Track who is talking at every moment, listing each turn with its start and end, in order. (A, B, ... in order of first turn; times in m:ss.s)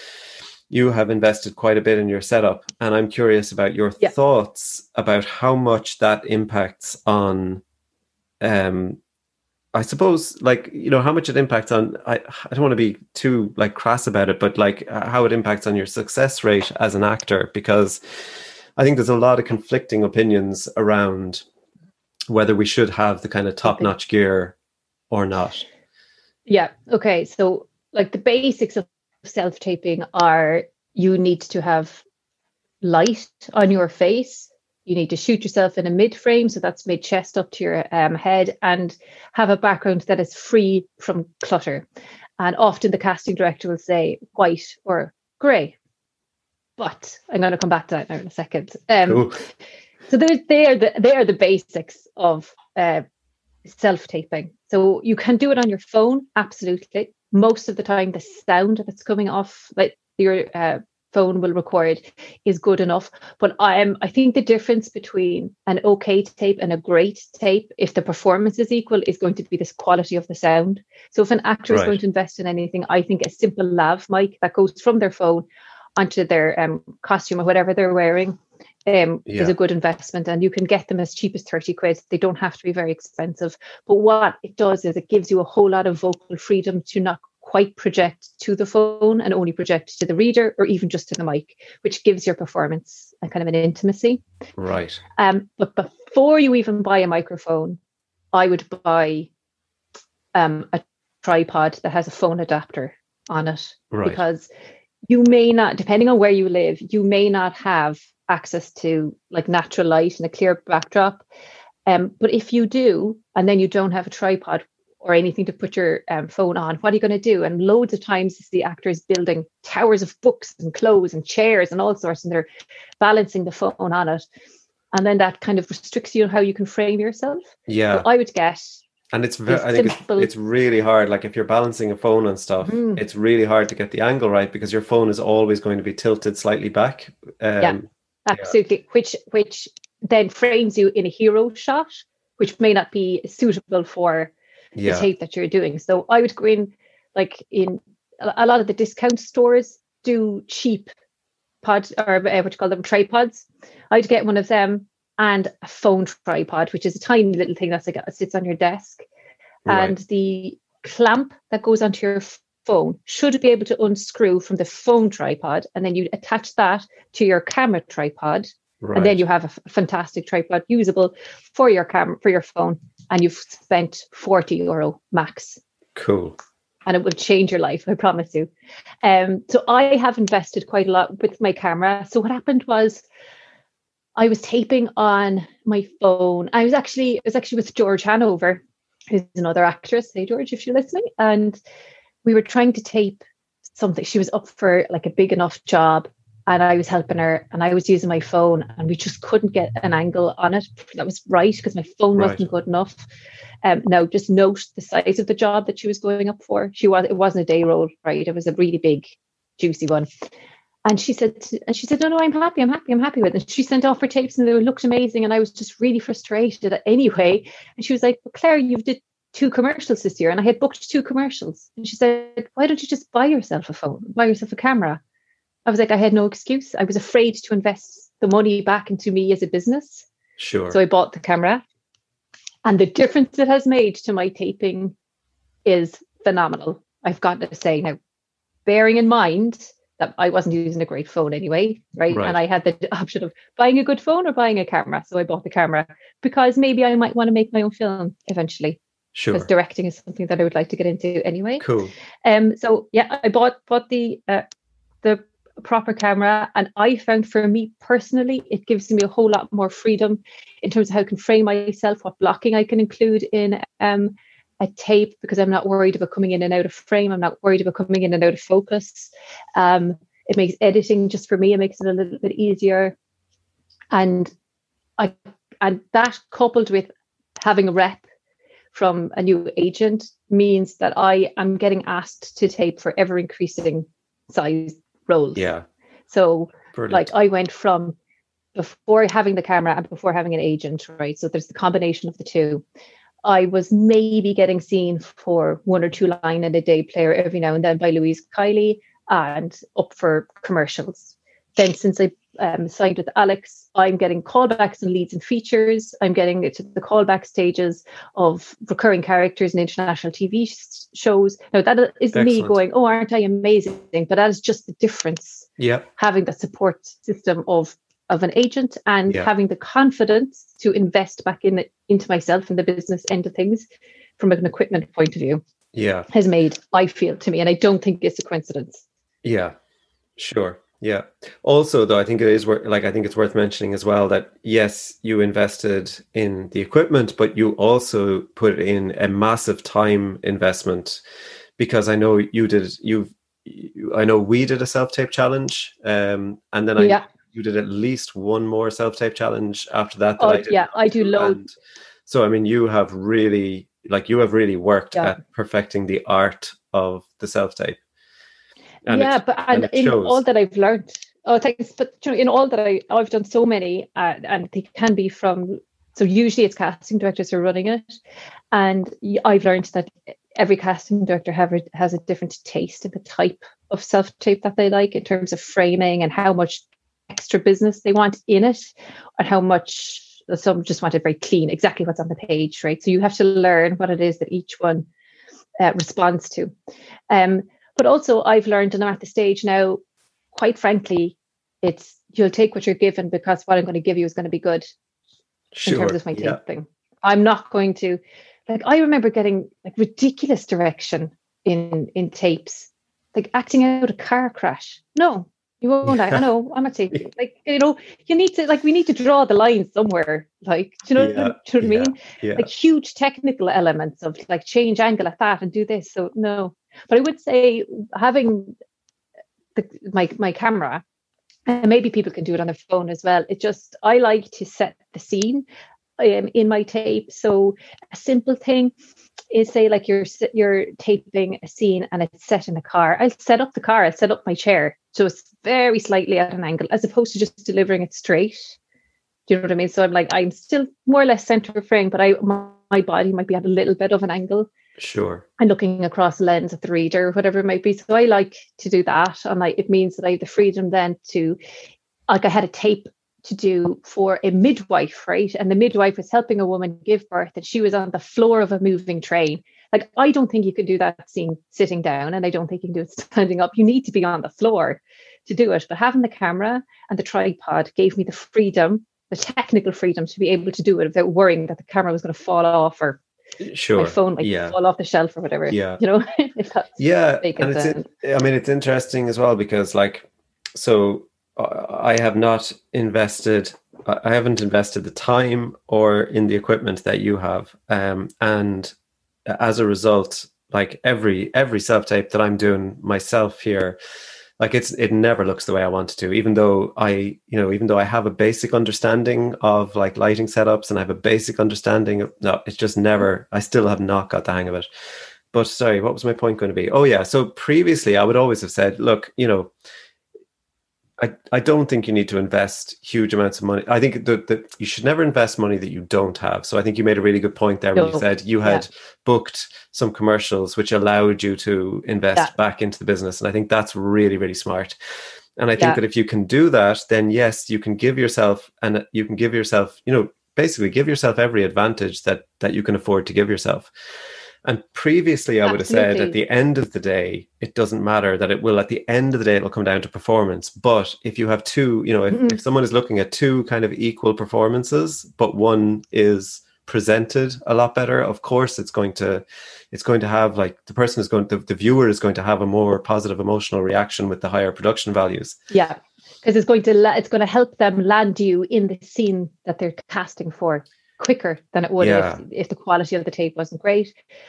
0:00.7-0:07.6 A
0:08.4-0:09.0 A
0:09.7-0:18.0 A
0:18.8-0:21.4 A
0:22.3-0:24.6 A
0:23.6-0:23.9 B
0:25.1-0:25.6 A
0:26.5-0:32.0 B
0:32.8-0:41.9 B
0:42.4-0:45.8 B
0:46.8-0:49.3 B
0:49.0-0:49.4 A
0:50.1-0:53.0 B
0:53.6-1:15.4 B
1:11.7-1:12.0 A
1:16.0-1:34.2 B
1:19.3-1:19.5 A
1:34.6-1:35.0 A
1:35.2-1:37.8 B
1:38.3-1:39.3 B
1:40.3-1:44.5 B
1:43.9-1:44.2 A
1:45.1-1:51.2 B
1:51.9-2:02.5 B
2:03.0-2:04.2 B
2:04.9-2:08.8 B
2:07.7-2:08.1 A
2:09.1-2:18.5 A
2:09.5-2:10.3 B
2:12.6-2:13.0 B
2:17.6-2:24.3 B
2:24.8-2:25.1 A
2:24.8-2:30.9 B
2:31.6-2:39.1 B
2:39.6-2:39.9 A
2:39.7-2:55.6 B
2:48.8-2:49.2 A
2:56.0-2:56.4 A
2:56.9-2:58.5 B
2:59.0-3:03.0 B
3:04.2-3:11.6 B
3:12.2-3:13.2 B
3:13.7-3:23.0 B
3:22.2-3:22.4 A
3:23.6-3:30.1 B
3:30.8-3:45.0 B
3:45.6-3:50.1 B
3:50.4-3:50.8 A
3:50.7-3:51.6 B
3:52.6-3:54.9 B
3:55.6-3:58.0 B
3:58.6-4:08.8 B
4:02.1-4:02.4 A
4:09.2-4:09.5 A
4:09.3-4:11.6 B
4:11.6-4:11.9 A
4:12.2-4:14.5 B
4:15.0-4:33.0 B
4:33.9-4:34.3 B
4:35.0-4:38.0 B
4:38.7-4:45.5 B
4:45.4-4:45.6 A
4:46.1-4:48.0 B
4:46.7-4:47.1 A
4:48.5-4:52.6 B
4:53.2-5:23.6 B
5:12.1-5:12.6 A
5:15.6-5:15.9 A
5:24.2-5:25.4 B
5:25.8-5:26.1 A
5:26.1-5:28.8 B
5:29.2-5:29.6 A
5:30.2-5:41.0 A
5:41.6-5:51.5 A
5:46.8-5:47.0 B
5:50.2-5:51.4 B
5:52.1-5:57.8 A
5:58.9-6:00.2 A
5:58.9-6:07.8 B
6:08.5-6:24.9 B
6:25.6-6:26.5 B
6:27.1-6:29.8 B
6:30.3-6:34.6 B
6:35.5-6:36.4 A
6:35.6-6:58.5 B
6:45.9-6:46.2 A
6:51.0-6:52.5 A
6:59.5-7:00.8 B
7:01.5-7:05.5 B
7:06.0-7:08.7 B
7:09.3-7:18.6 B
7:19.3-7:24.5 B
7:24.8-7:25.2 A
7:25.4-7:31.4 B
7:32.1-7:53.0 B
7:53.4-7:54.6 A
7:53.8-7:57.9 B
7:55.5-7:55.8 A
7:56.8-8:08.7 A
8:09.3-8:13.8 A
8:14.4-8:24.7 A
8:25.3-8:29.5 A
8:31.0-8:44.8 A
8:37.8-8:38.6 B
8:45.4-8:53.7 A
8:54.4-9:15.4 A
8:55.4-8:56.2 B
9:02.1-9:02.4 B
9:15.5-9:23.9 B
9:21.8-9:22.2 A